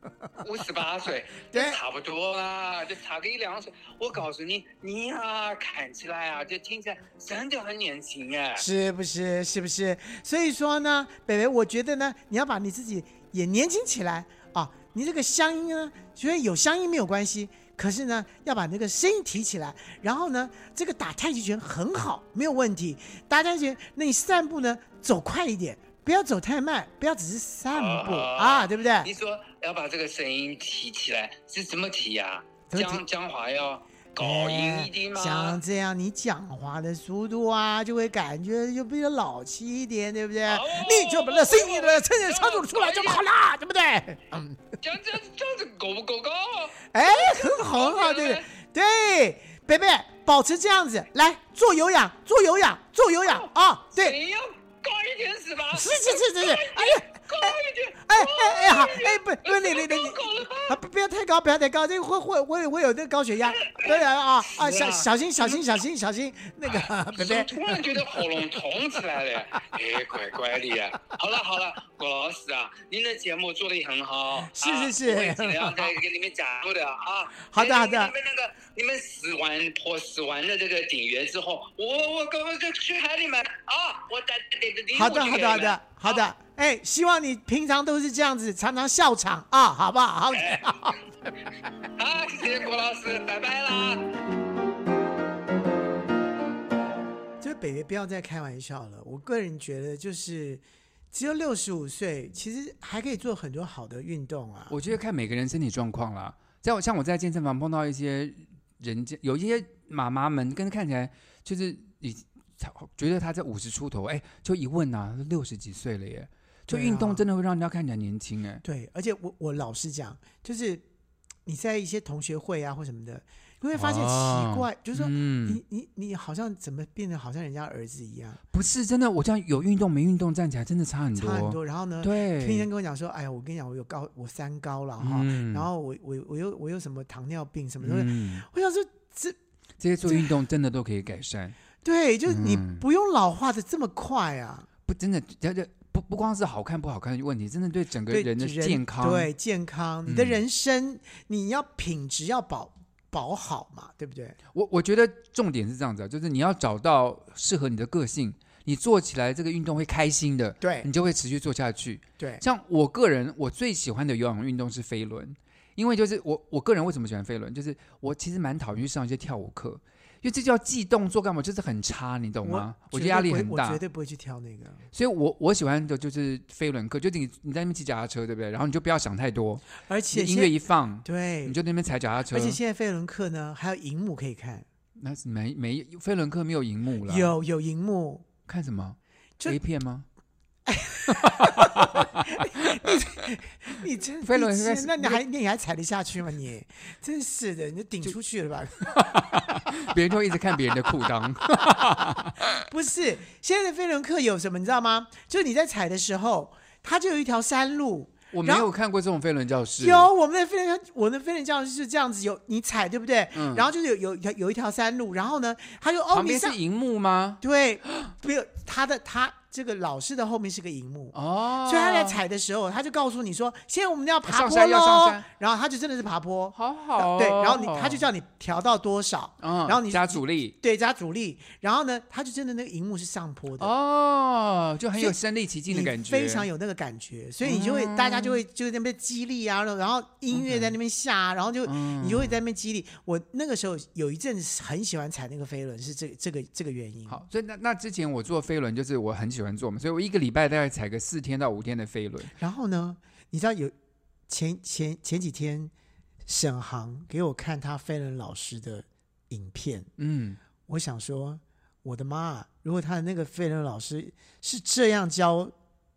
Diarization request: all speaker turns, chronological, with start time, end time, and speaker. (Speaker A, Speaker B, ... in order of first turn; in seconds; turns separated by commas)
Speaker A: 0.4-8.7, Speaker B: 1.5-1.8, Speaker B: 8.6-29.1, Speaker A: 27.7-35.6, Speaker B: 32.7-33.0, Speaker B: 34.2-44.7, Speaker A: 40.5-43.2, Speaker A: 44.8-48.5, Speaker B: 46.9-54.2, Speaker A: 53.3-60.8, Speaker B: 55.7-68.2, Speaker A: 63.5-65.6, Speaker A: 66.7-86.3, Speaker B: 74.4-76.0, Speaker B: 77.5-78.2, Speaker B: 84.9-91.1, Speaker A: 90.3-90.7, Speaker A: 92.0-94.1, Speaker B: 97.4-104.8, Speaker C: 104.7-118.6, Speaker B: 116.7-117.2, Speaker B: 118.6-120.8, Speaker B: 121.5-128.4, Speaker C: 123.8-125.6, Speaker C: 128.5-132.7, Speaker B: 131.2-139.4, Speaker C: 135.0-135.7, Speaker C: 137.8-138.5, Speaker C: 139.8-141.6, Speaker B: 140.1-140.3, Speaker B: 141.8-144.7, Speaker C: 142.3-142.8, Speaker C: 144.9-149.3, Speaker B: 148.1-154.4, Speaker C: 150.1-150.4, Speaker C: 154.5-173.8, Speaker B: 160.6-160.9, Speaker B: 172.4-174.9, Speaker C: 174.9-182.6, Speaker B: 179.8-181.6, Speaker B: 182.3-184.7, Speaker C: 185.0-187.3, Speaker B: 187.1-188.3, Speaker C: 188.5-190.1, Speaker B: 190.7-199.6, Speaker C: 191.1-192.9, Speaker C: 194.2-195.2, Speaker C: 198.8-202.5, Speaker B: 201.6-208.7, Speaker C: 208.3-210.1, Speaker B: 209.8-216.6, Speaker C: 213.3-213.7, Speaker C: 216.1-217.4, Speaker B: 217.4-233.7, Speaker C: 221.1-222.2, Speaker C: 224.2-225.3, Speaker C: 226.6-228.1, Speaker C: 229.4-230.6, Speaker C: 233.6-236.5, Speaker B: 234.9-247.2, Speaker C: 237.4-238.4, Speaker C: 240.3-240.8, Speaker C: 241.7-242.4, Speaker C: 247.1-252.3, Speaker B: 252.4-253.7, Speaker B: 254.3-255.7, Speaker B: 256.3-259.9, Speaker C: 260.0-260.4, Speaker B: 260.7-265.5